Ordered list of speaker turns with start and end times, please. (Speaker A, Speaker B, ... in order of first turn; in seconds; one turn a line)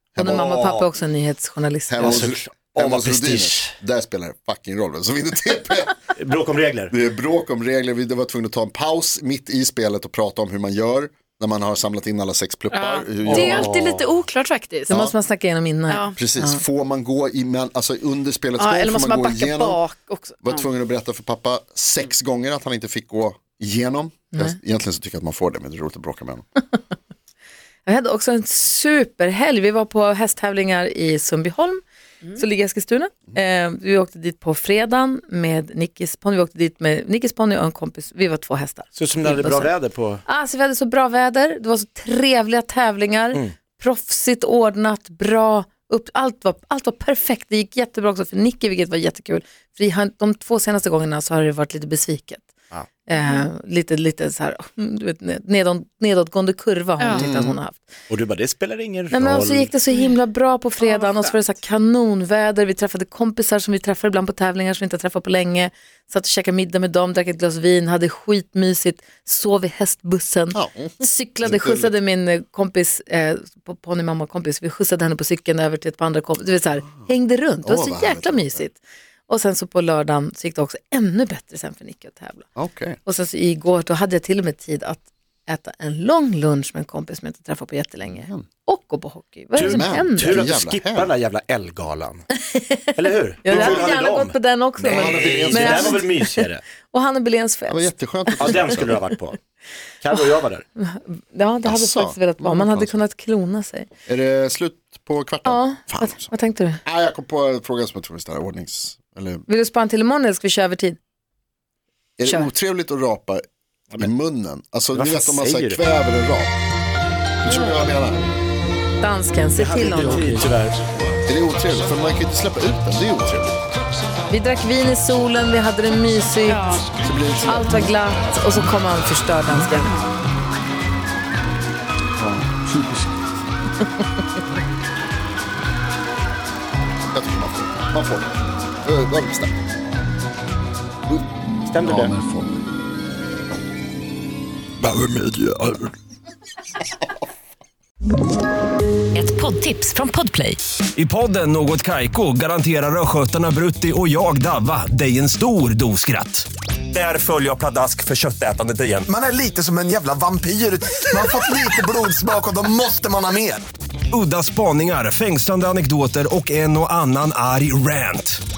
Speaker A: 0.1-0.6
Speaker B: 0.2-2.2
Speaker C: 0.3-0.8
Speaker A: 1.9-6.0
Speaker C: 2.0-3.7
Speaker C: 6.2-6.9
Speaker A: 6.9-13.7
Speaker D: 12.7-14.9
Speaker C: 13.2-14.1
Speaker B: 14.9-16.6
Speaker A: 14.9-15.1
Speaker D: 15.9-16.1
Speaker A: 16.2-19.8
Speaker D: 18.6-20.7
Speaker A: 20.4-26.4
Speaker B: 27.9-39.7
Speaker C: 38.9-40.2
Speaker B: 40.2-52.5
Speaker B: 53.1-57.8
Speaker D: 53.2-53.4
Speaker D: 57.0-57.2
Speaker A: 57.1-57.5
Speaker C: 58.1-59.7
Speaker B: 59.1-82.5
Speaker D: 60.8-61.4
Speaker A: 70.5-72.0
Speaker A: 77.6-78.6
Speaker A: 82.5-83.0
Speaker B: 83.0-90.4
Speaker A: 88.1-88.4
Speaker C: 89.5-92.2
Speaker A: 89.6-91.1
Speaker B: 92.5-99.0
Speaker C: 92.9-96.6
Speaker A: 93.5-93.9
Speaker A: 94.8-96.0
Speaker A: 97.7-99.0
Speaker C: 98.4-99.4
Speaker C: 100.0-100.6
Speaker B: 100.8-103.9
Speaker A: 101.6-103.0
Speaker A: 104.1-109.5
Speaker B: 105.4-106.8
Speaker B: 109.5-111.0
Speaker A: 112.2-113.4
Speaker B: 112.2-112.5
Speaker A: 114.0-116.5
Speaker C: 114.9-115.8
Speaker A: 117.4-118.3
Speaker B: 119.0-120.5
Speaker C: 119.6-121.1
Speaker A: 121.2-123.6
Speaker B: 124.3-129.9
Speaker D: 126.5-126.9
Speaker A: 127.0-127.8
Speaker A: 132.2-133.1
Speaker A: 137.1-139.5
Speaker C: 141.7-142.1
Speaker A: 141.8-142.6
Speaker A: 144.8-145.9
Speaker B: 149.1-150.6
Speaker E: 150.9-159.1
Speaker F: 159.1-163.4
Speaker E: 161.2-161.7
Speaker E: 164.1-168.4